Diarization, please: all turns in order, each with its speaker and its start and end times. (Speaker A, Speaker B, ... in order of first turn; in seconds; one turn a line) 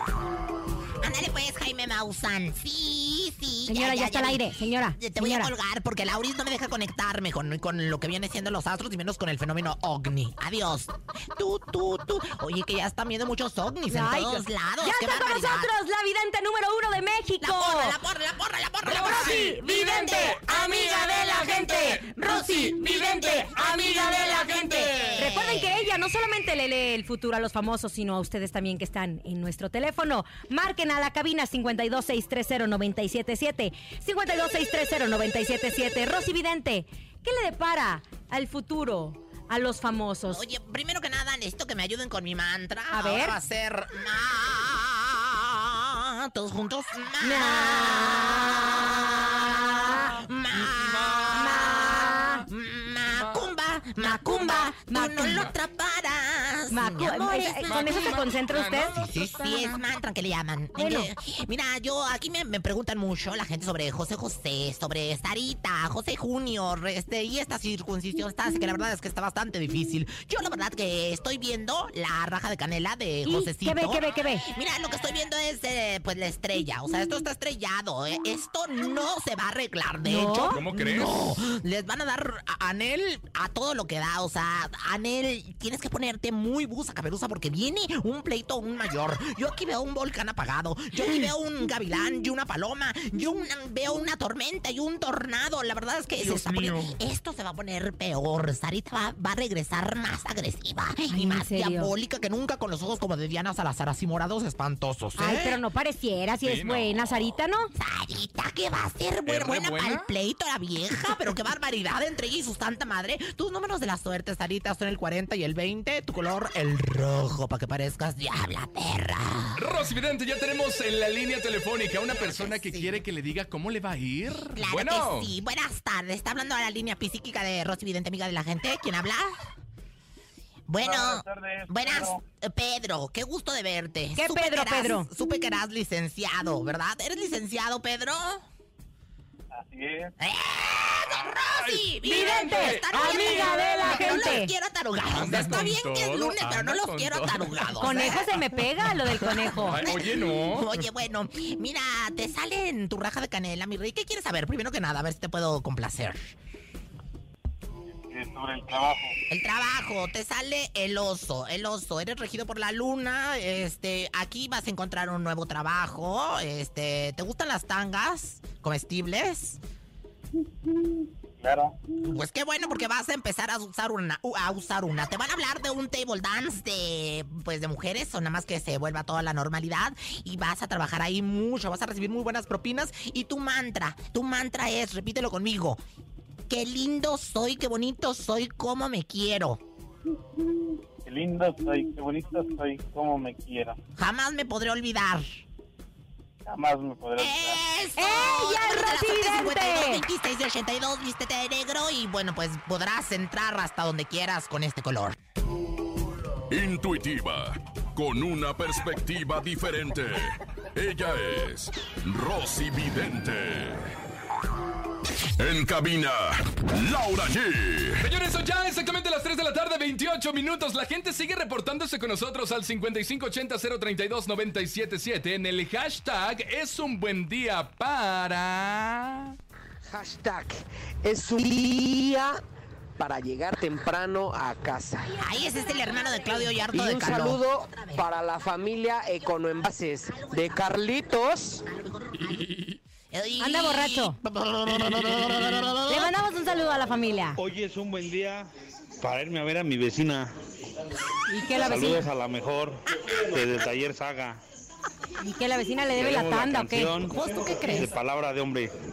Speaker A: 1.0-15.7
Speaker B: 3.7-5.5
Speaker B: 13.9-18.0
Speaker A: 17.4-25.7
Speaker B: 18.9-24.6
Speaker C: 19.1-20.2
Speaker B: 25.1-40.4
Speaker A: 40.3-58.2
Speaker B: 42.9-43.4
Speaker B: 47.2-50.1
Speaker C: 50.5-52.0
Speaker B: 51.3-52.5
Speaker C: 53.1-53.5
Speaker B: 54.0-55.5
Speaker C: 55.2-55.5
Speaker B: 56.7-58.9
Speaker C: 57.6-59.8
Speaker A: 58.9-105.6
Speaker B: 60.8-61.1
Speaker B: 73.2-74.5
Speaker B: 80.0-80.6
Speaker C: 80.5-81.2
Speaker C: 96.2-96.8
Speaker B: 101.1-101.9
Speaker B: 105.2-107.7
Speaker C: 106.4-107.1
Speaker A: 107.8-119.6
Speaker C: 109.2-110.1
Speaker C: 119.6-125.3
Speaker A: 122.1-123.0
Speaker A: 124.5-129.3
Speaker A: 130.7-138.5
Speaker D: 130.8-132.2
Speaker B: 134.2-135.1
Speaker D: 139.5-140.1
Speaker A: 140.2-148.3
Speaker C: 141.5-144.4
Speaker B: 142.1-144.5
Speaker C: 145.1-148.2
Speaker B: 147.8-149.8
Speaker A: 149.2-156.3
Speaker C: 149.7-150.7
Speaker D: 158.1-159.2
Speaker A: 159.3-169.6
Speaker D: 171.4-171.8
Speaker A: 172.0-185.8
Speaker A: 186.5-189.6
Speaker D: 191.1-193.8
Speaker A: 194.0-195.4
Speaker D: 196.5-197.6
Speaker A: 197.2-205.2
Speaker B: 198.0-200.0
Speaker E: 206.5-213.9
Speaker E: 215.4-218.0
Speaker C: 218.0-229.4
Speaker F: 229.9-232.4
Speaker F: 233.0-235.2
Speaker A: 235.2-238.1
Speaker B: 235.5-236.5
Speaker F: 236.7-241.6
Speaker A: 240.1-240.8
Speaker A: 241.7-242.5
Speaker A: 243.1-246.2
Speaker B: 243.4-244.2
Speaker B: 245.9-247.4
Speaker G: 247.4-248.5
Speaker G: 249.0-250.3
Speaker B: 251.3-252.1
Speaker G: 251.6-254.4
Speaker A: 252.9-253.3
Speaker B: 255.2-257.0
Speaker G: 255.9-258.7
Speaker A: 257.1-257.9